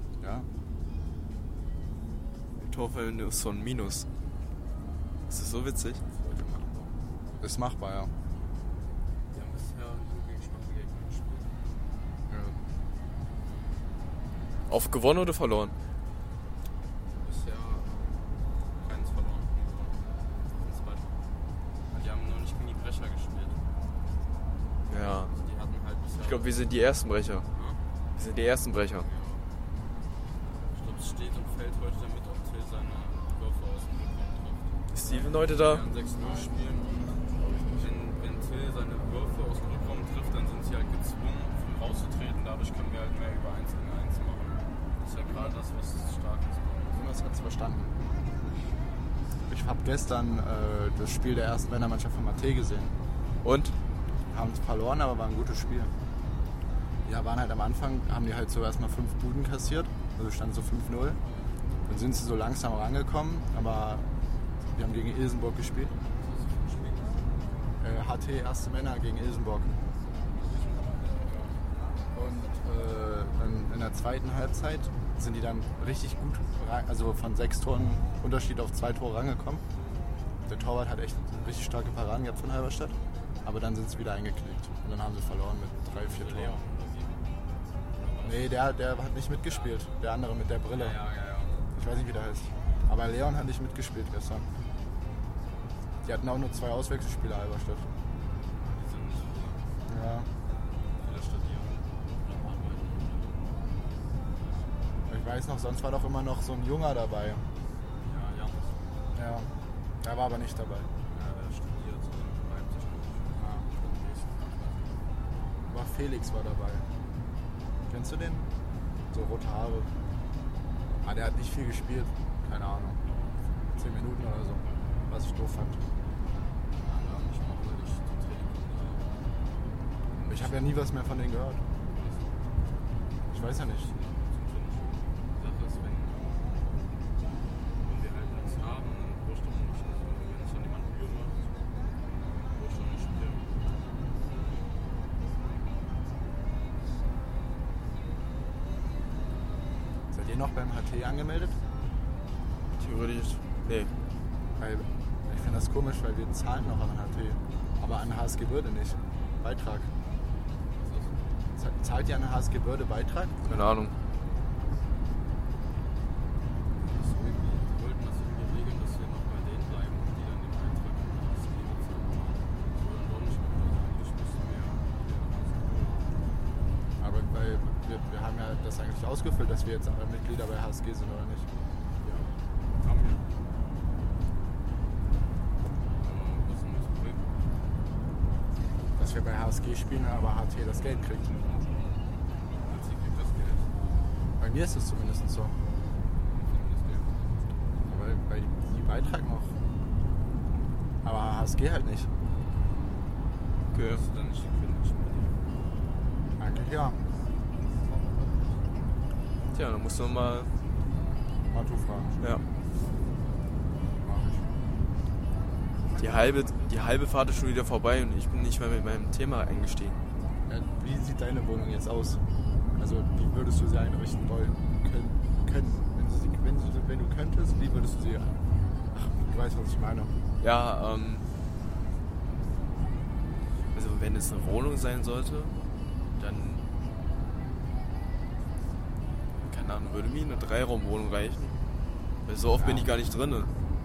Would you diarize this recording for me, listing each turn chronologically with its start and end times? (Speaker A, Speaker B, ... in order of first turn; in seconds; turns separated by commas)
Speaker A: 0.2-0.5, Speaker B: 2.6-4.1, Speaker B: 5.3-6.0, Speaker C: 6.0-7.0, Speaker A: 7.4-8.1, Speaker C: 9.3-11.6, Speaker A: 12.3-12.6, Speaker B: 14.7-15.7, Speaker C: 17.2-18.1, Speaker C: 18.8-21.1, Speaker C: 21.9-23.7, Speaker B: 24.9-25.3, Speaker C: 25.1-26.7, Speaker B: 26.2-27.4, Speaker C: 27.5-27.8, Speaker B: 28.1-29.1, Speaker C: 28.9-29.4, Speaker C: 30.7-37.2, Speaker B: 34.9-35.8, Speaker A: 36.2-36.5, Speaker A: 37.3-37.9, Speaker C: 37.8-47.1, Speaker A: 45.2-45.6, Speaker A: 46.9-48.0, Speaker A: 49.5-53.0, Speaker B: 53.4-53.8, Speaker A: 54.3-55.9, Speaker A: 57.0-61.2, Speaker A: 61.9-64.1, Speaker A: 64.7-65.9, Speaker C: 66.0-67.3, Speaker A: 67.8-69.8, Speaker C: 70.3-71.6, Speaker A: 72.1-79.6, Speaker A: 80.5-86.6, Speaker C: 85.9-87.3, Speaker C: 87.9-88.6, Speaker A: 88.2-91.0, Speaker C: 90.7-91.7, Speaker A: 91.7-94.5, Speaker A: 96.0-97.9, Speaker C: 98.6-99.7, Speaker A: 99.9-100.3, Speaker C: 101.0-103.4, Speaker A: 105.1-107.5, Speaker C: 108.0-108.7, Speaker A: 109.1-110.9, Speaker C: 111.0-114.8, Speaker A: 113.4-113.7, Speaker A: 115.7-116.9, Speaker A: 117.9-118.5, Speaker A: 119.1-119.9, Speaker A: 121.0-123.0, Speaker A: 123.7-125.8, Speaker C: 126.8-129.1, Speaker C: 130.1-130.7, Speaker A: 130.2-131.6, Speaker C: 131.9-132.4, Speaker A: 133.3-133.9, Speaker C: 133.6-136.7, Speaker C: 137.8-141.5, Speaker C: 142.5-143.5, Speaker A: 150.1-151.6, Speaker B: 152.7-153.9, Speaker A: 154.6-159.9, Speaker C: 160.7-161.2, Speaker A: 161.6-163.4, Speaker B: 163.4-163.9, Speaker C: 166.8-176.1, Speaker A: 177.0-181.5, Speaker C: 182.0-183.3, Speaker C: 185.9-187.3, Speaker A: 188.9-191.7, Speaker C: 192.6-193.7, Speaker A: 194.4-195.6, Speaker C: 196.2-197.1, Speaker A: 197.8-199.6, Speaker A: 201.0-202.1, Speaker B: 203.7-204.0, Speaker C: 203.8-205.4, Speaker A: 206.4-207.0, Speaker B: 209.5-210.5, Speaker A: 211.5-212.2, Speaker A: 214.0-214.5, Speaker B: 216.0-220.0, Speaker A: 220.5-222.2, Speaker A: 222.8-228.4, Speaker A: 228.9-230.1, Speaker B: 230.4-231.2, Speaker B: 233.7-235.5, Speaker B: 236.2-236.6, Speaker B: 239.5-241.6, Speaker B: 242.2-243.5, Speaker A: 242.6-242.9